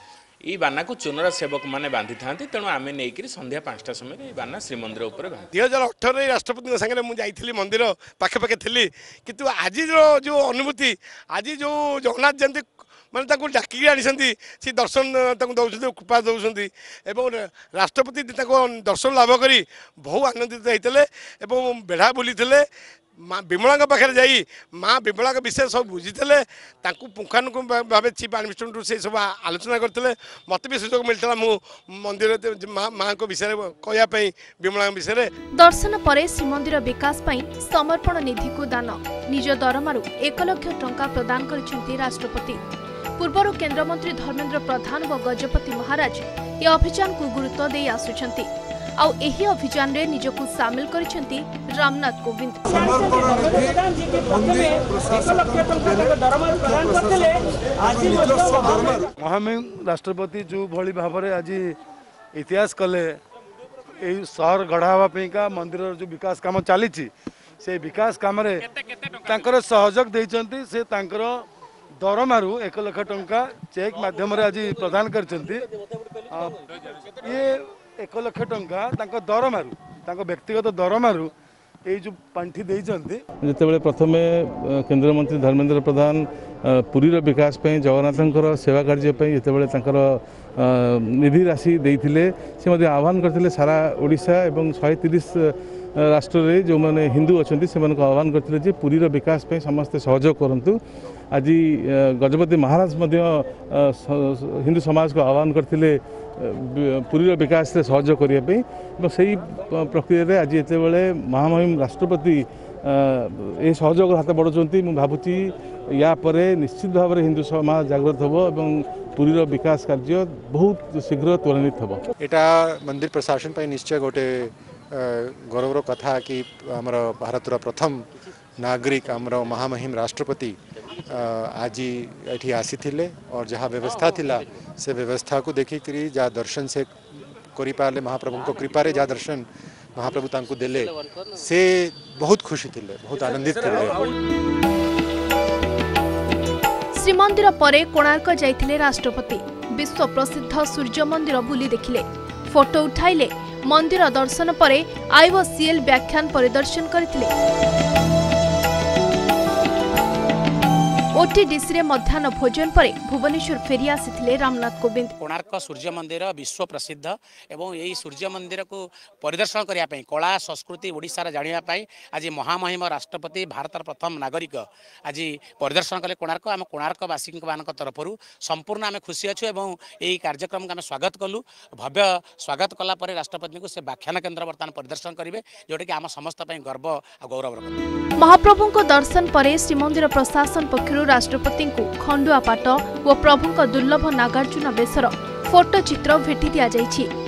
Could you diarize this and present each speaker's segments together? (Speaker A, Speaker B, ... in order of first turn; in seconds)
Speaker A: 0.4-5.5
Speaker B: 5.5-22.6, 23.3-35.3
Speaker C: 35.6-42.6, 43.2-54.7, 146.9-157.3, 161.2-165.1, 188.2-197.1
Speaker D: 58.1-61.7, 62.3-63.2, 64.0-67.1, 67.6-68.7, 69.2-71.4, 72.0-75.7, 76.3-76.6, 77.2-81.3, 81.8-83.2
Speaker E: 83.4-100.8, 101.3-122.0
Speaker F: 122.2-128.0, 128.6-130.6, 131.1-136.9, 137.6-139.4, 140.0-144.0
Speaker G: 165.2-187.8